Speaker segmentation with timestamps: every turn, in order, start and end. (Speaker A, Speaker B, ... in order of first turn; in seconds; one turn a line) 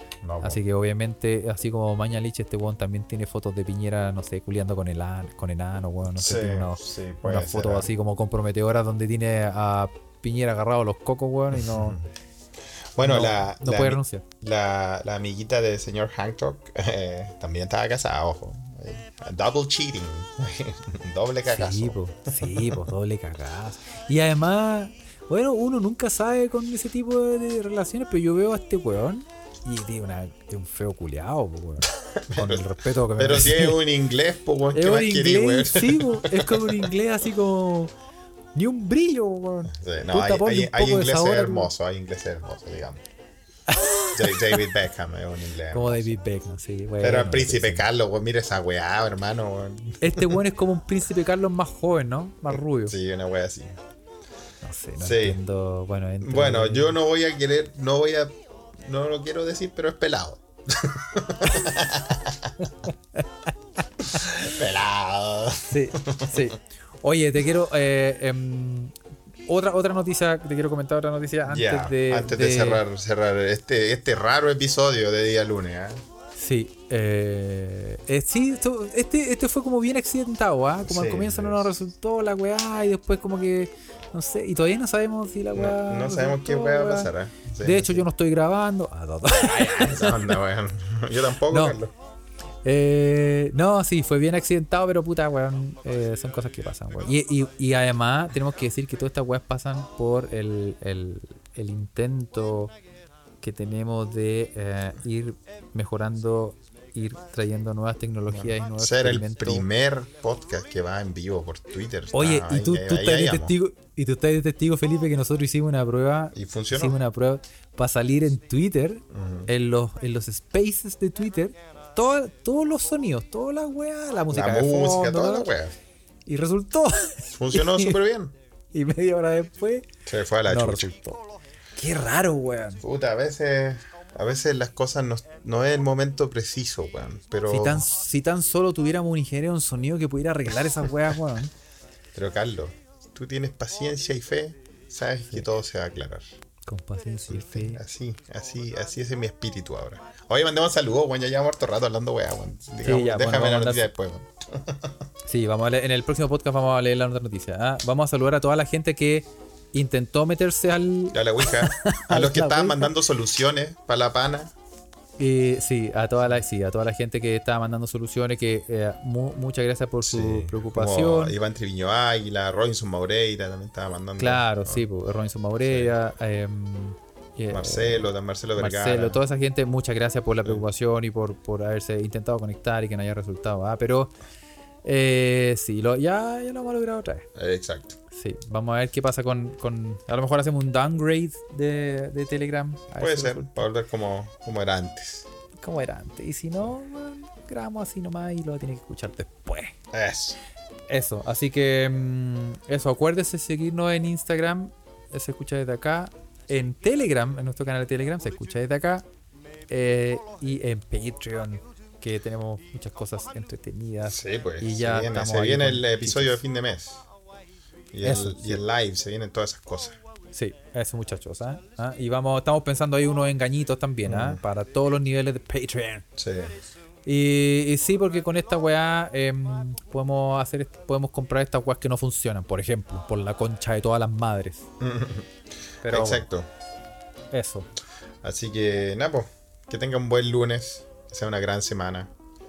Speaker A: 0.2-0.6
Speaker B: 0.4-12.0
Speaker A: 6.2-7.9
Speaker A: 11.5-12.1
Speaker A: 12.9-22.9
Speaker B: 13.0-14.2
Speaker B: 21.4-33.8
Speaker A: 32.0-36.9
Speaker B: 34.7-37.9
Speaker B: 38.5-41.7
Speaker A: 39.7-43.0
Speaker B: 43.7-44.6
Speaker A: 44.1-46.2
Speaker B: 45.7-47.9
Speaker A: 47.0-50.4
Speaker B: 50.0-53.0
Speaker A: 52.8-53.8
Speaker B: 54.6-57.0
Speaker A: 55.0-55.4
Speaker A: 56.2-62.5
Speaker B: 62.7-63.5
Speaker A: 64.0-66.5
Speaker B: 65.7-68.9
Speaker B: 69.5-72.8
Speaker A: 71.4-76.0
Speaker B: 76.3-87.1
Speaker A: 80.8-81.7
Speaker A: 85.5-88.1
Speaker B: 87.6-90.4
Speaker A: 89.3-91.9
Speaker B: 91.5-91.8
Speaker B: 92.6-102.7
Speaker B: 103.4-109.7
Speaker A: 108.3-113.5
Speaker B: 112.1-125.5
Speaker A: 116.3-117.0
Speaker A: 119.1-119.5
Speaker A: 124.3-125.8
Speaker B: 126.2-128.0
Speaker A: 127.3-128.3
Speaker B: 128.7-129.8
Speaker A: 130.1-131.2
Speaker B: 130.4-130.9
Speaker B: 131.7-132.8
Speaker A: 132.8-137.8
Speaker B: 137.5-141.5
Speaker A: 142.1-146.2
Speaker B: 146.7-147.8
Speaker A: 147.3-154.9
Speaker B: 152.8-153.9
Speaker B: 155.2-162.9
Speaker A: 161.1-164.5
Speaker B: 165.2-171.3
Speaker A: 170.0-174.8
Speaker B: 174.2-184.1
Speaker A: 175.6-175.9
Speaker A: 177.5-179.2
Speaker B: 184.8-187.3
Speaker A: 187.3-188.0
Speaker B: 188.1-193.5
Speaker A: 192.9-195.3
Speaker B: 195.6-199.7
Speaker A: 199.9-200.4
Speaker B: 200.9-209.1
Speaker B: 209.7-216.4
Speaker A: 214.1-217.0
Speaker A: 217.9-220.0
Speaker B: 218.0-218.6
Speaker B: 220.3-226.0
Speaker A: 224.0-224.4
Speaker A: 226.2-226.5
Speaker B: 227.1-234.7
Speaker A: 234.8-235.3
Speaker B: 235.8-236.2
Speaker A: 235.8-236.5
Speaker B: 237.3-237.7
Speaker A: 238.2-242.1